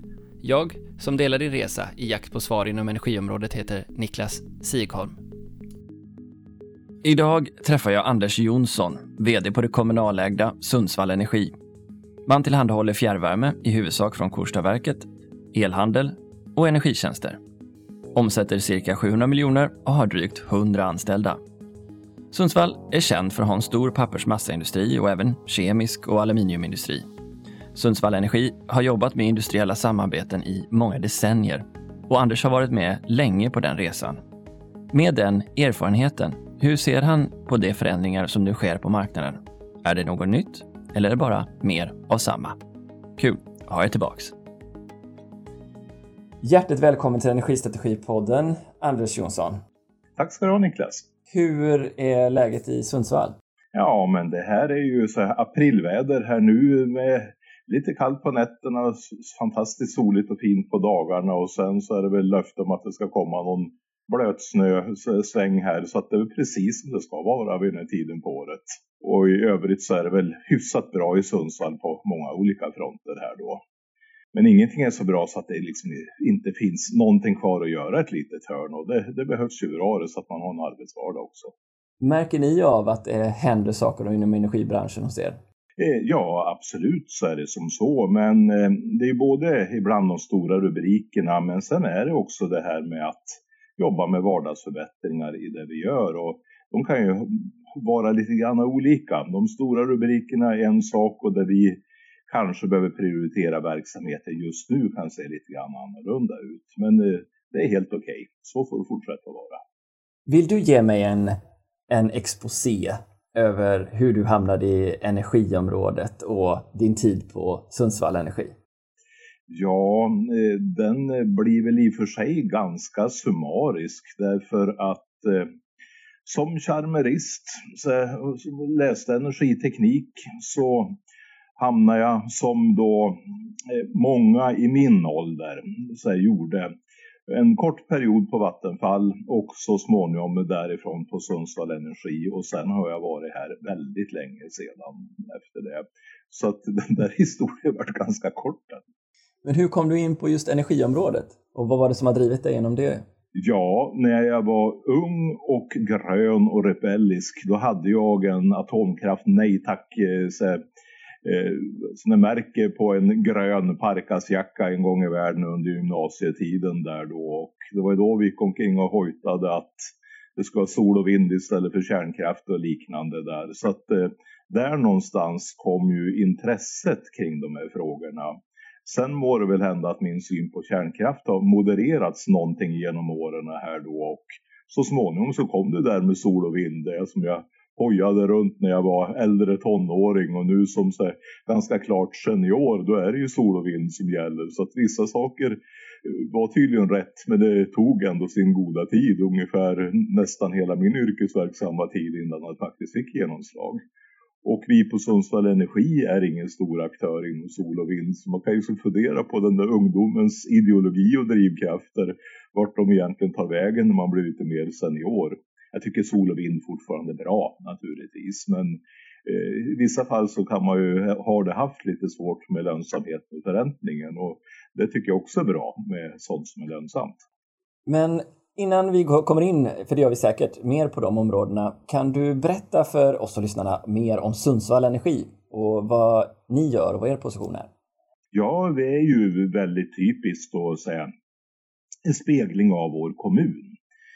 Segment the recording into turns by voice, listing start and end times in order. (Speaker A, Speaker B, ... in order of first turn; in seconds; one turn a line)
Speaker A: 0.4-5.2
Speaker A: 7.0-11.5
Speaker A: 12.3-17.4
Speaker A: 18.1-21.4
Speaker A: 22.3-27.1
Speaker A: 27.8-34.2
Speaker A: 34.9-42.6
Speaker A: 43.2-44.3
Speaker A: 46.4-49.6
Speaker B: 50.2-51.1
Speaker A: 51.3-53.4
Speaker B: 53.7-73.6
Speaker B: 74.3-81.5
Speaker A: 82.0-85.4
Speaker B: 85.8-109.6
Speaker A: 110.3-111.4
Speaker A: 111.9-118.5
Speaker B: 119.5-125.5
Speaker B: 126.2-131.0
Speaker B: 131.6-136.7
Speaker B: 137.3-148.8
Speaker A: 149.4-153.1
Speaker B: 153.3-160.7
Speaker B: 161.2-203.8
Speaker B: 204.4-227.2
Speaker A: 227.9-237.7
Speaker B: 238.3-241.1
Speaker B: 242.1-243.8